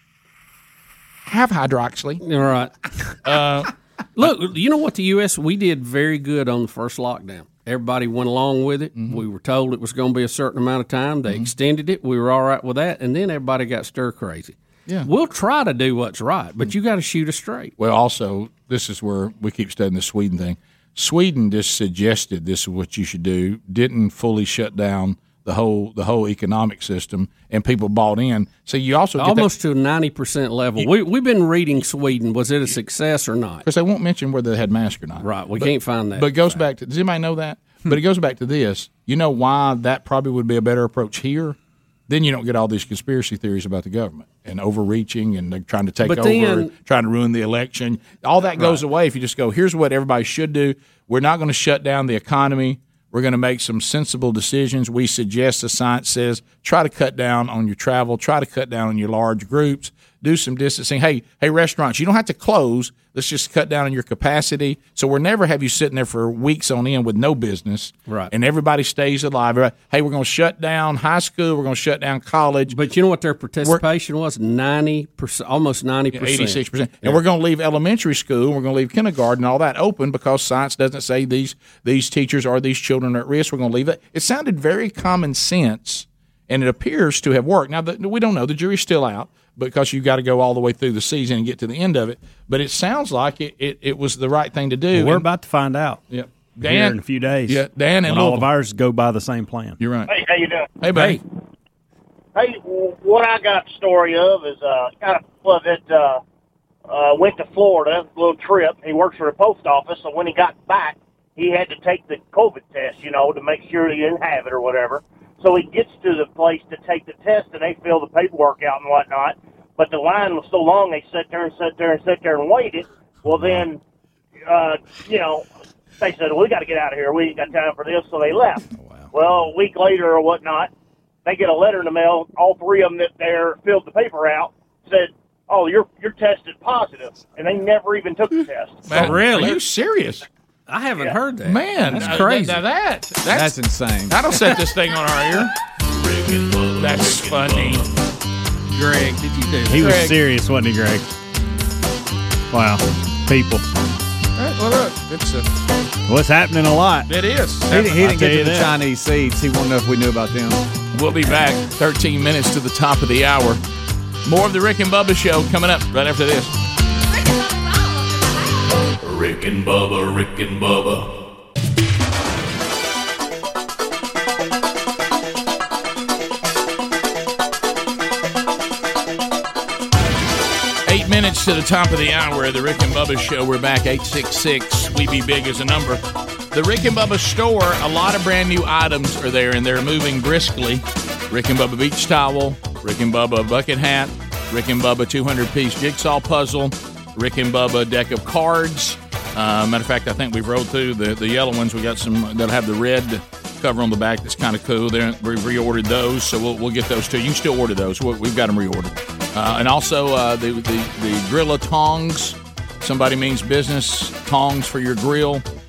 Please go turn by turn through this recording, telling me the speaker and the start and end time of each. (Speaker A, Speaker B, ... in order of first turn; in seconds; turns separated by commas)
Speaker A: 1.2-2.2, Speaker B: 2.2-3.1, Speaker A: 3.2-4.3, Speaker B: 4.2-17.7, Speaker A: 17.8-29.5, Speaker B: 29.2-33.6, Speaker A: 33.6-41.5, Speaker B: 35.2-36.6, Speaker A: 42.1-72.8, Speaker B: 46.0-46.7, Speaker B: 68.0-68.3, Speaker B: 72.7-77.2, Speaker A: 76.1-95.3, Speaker C: 94.9-96.0, Speaker A: 96.1-98.5, Speaker C: 96.6-99.8, Speaker A: 99.8-100.1, Speaker D: 100.1-100.8, Speaker A: 100.8-101.2, Speaker C: 100.9-101.2, Speaker D: 102.3-106.2, Speaker D: 106.9-123.8, Speaker D: 124.5-125.5, Speaker D: 126.0-130.7, Speaker D: 131.2-139.1, Speaker A: 138.9-140.2, Speaker B: 138.9-139.6, Speaker B: 140.7-142.6, Speaker A: 141.4-143.6, Speaker E: 143.2-144.2, Speaker A: 144.1-145.5, Speaker F: 145.9-147.9, Speaker A: 146.8-147.9, Speaker B: 148.7-150.0, Speaker C: 149.7-151.1, Speaker A: 149.8-150.2, Speaker C: 152.5-153.6, Speaker A: 154.4-155.4, Speaker C: 156.1-157.1, Speaker A: 157.1-158.0, Speaker E: 157.7-160.6, Speaker C: 157.8-158.7, Speaker A: 160.9-163.6, Speaker A: 164.2-166.5, Speaker F: 169.0-171.2, Speaker A: 180.8-215.4